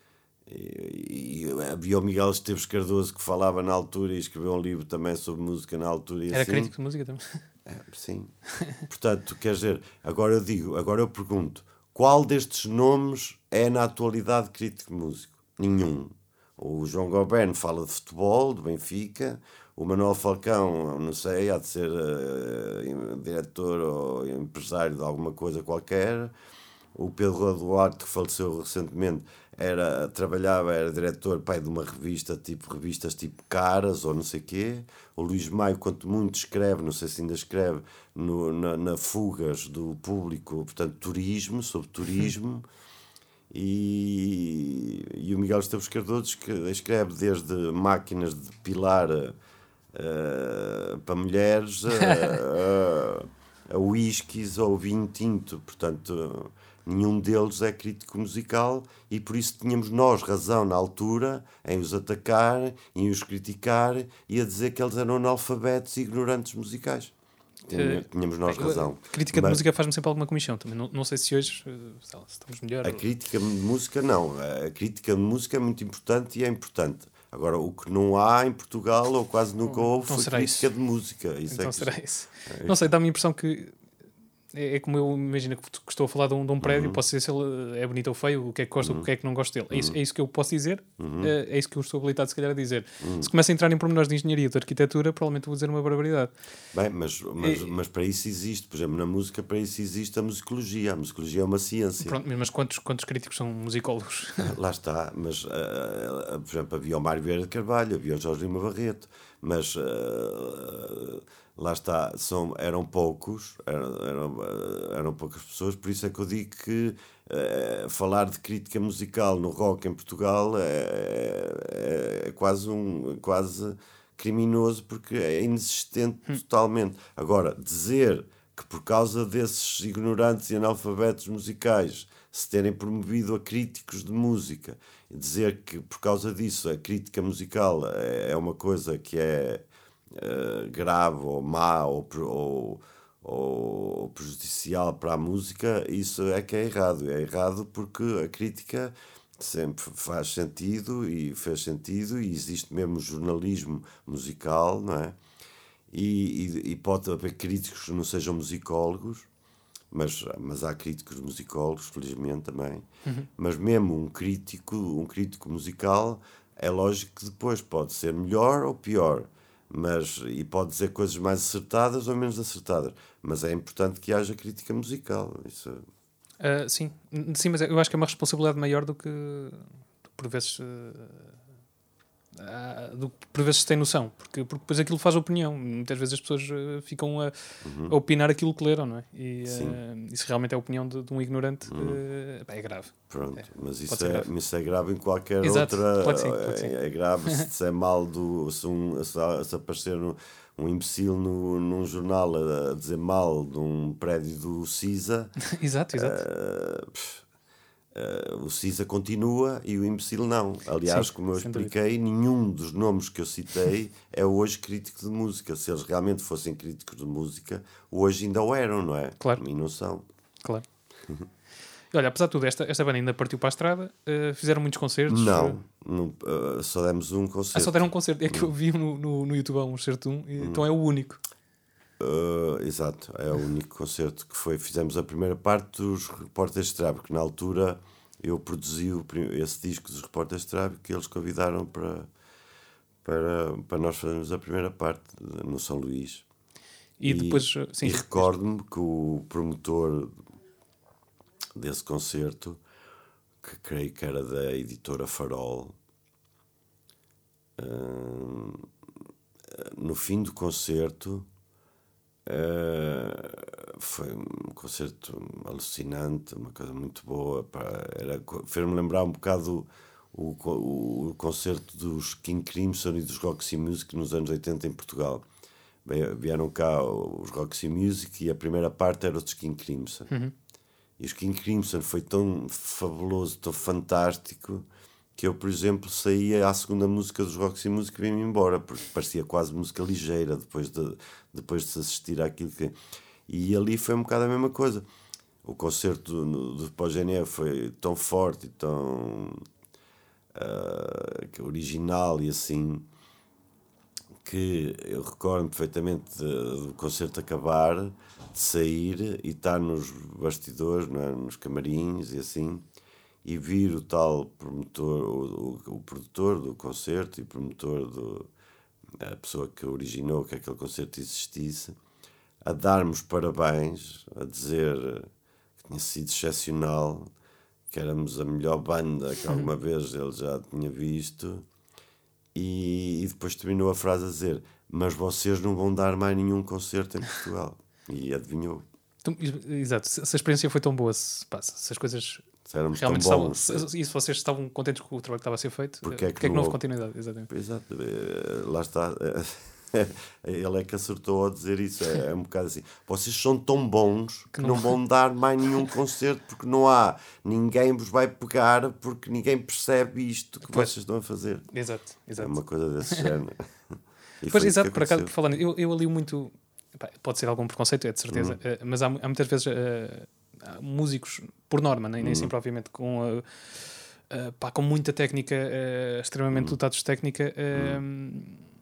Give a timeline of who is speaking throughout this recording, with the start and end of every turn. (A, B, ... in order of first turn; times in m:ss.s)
0:00.5-0:06.7 A
0:06.3-0:07.4 B
0:07.6-0:26.3 A
0:26.9-0:42.6 A
0:43.5-0:49.4 A
0:49.9-1:07.1 A
1:07.7-1:09.6 A
1:07.7-1:13.0 B
1:12.8-1:22.8 A
1:19.6-1:20.7 B
1:21.5-1:23.8 B
1:24.5-1:36.3 B
1:26.6-1:27.0 A
1:28.8-1:29.1 A
1:29.7-1:30.0 A
1:31.0-1:31.3 A
1:33.0-1:33.3 A
1:36.7-1:42.2 A
1:37.4-1:37.7 B
1:42.0-1:44.5 B
1:44.4-2:35.2 A
2:35.9-2:39.3 A
2:39.9-2:55.8 A
2:56.4-3:01.4 B
3:02.4-3:07.3 B
3:07.6-3:07.9 A
3:07.9-3:14.3 B
3:09.4-3:09.8 A
3:11.7-3:12.0 A
3:13.1-3:25.3 A
3:15.4-3:16.8 B
3:25.4-3:26.2 B
3:25.9-3:27.2 A
3:27.9-3:40.0 A
3:30.9-3:31.7 B
3:41.9-3:45.6 B
3:45.1-3:48.5 A
3:47.5-3:51.2 B
3:50.4-3:50.6 A
3:52.0-4:02.1 A
4:03.0-4:06.2 A
4:07.0-4:08.3 B
4:07.0-4:10.1 A
4:11.6-4:12.6 A
4:13.4-4:15.8 A
4:17.6-4:18.6 A
4:19.5-4:21.3 A
4:22.3-4:35.2 A
4:35.8-4:40.1 A
4:41.0-4:52.8 A
4:53.3-4:54.8 A
4:55.4-4:59.4 A
5:00.3-5:02.9 A
5:04.2-5:12.6 A
5:13.2-5:18.3 A
5:19.0-5:21.8 A
5:22.4-5:27.1 A
5:27.7-5:31.4 A
5:32.3-5:38.6 A
5:39.0-5:47.3 B
5:42.4-5:43.7 A
5:45.8-5:46.6 A
5:47.3-6:01.5 A
5:54.3-5:54.8 B
6:00.5-6:00.7 B
6:01.5-6:03.1 B
6:02.2-6:03.4 A
6:04.2-6:05.1 A
6:04.3-6:18.4 B
6:08.1-6:08.4 A
6:12.0-6:12.3 A
6:16.3-6:16.6 A
6:17.5-6:17.8 A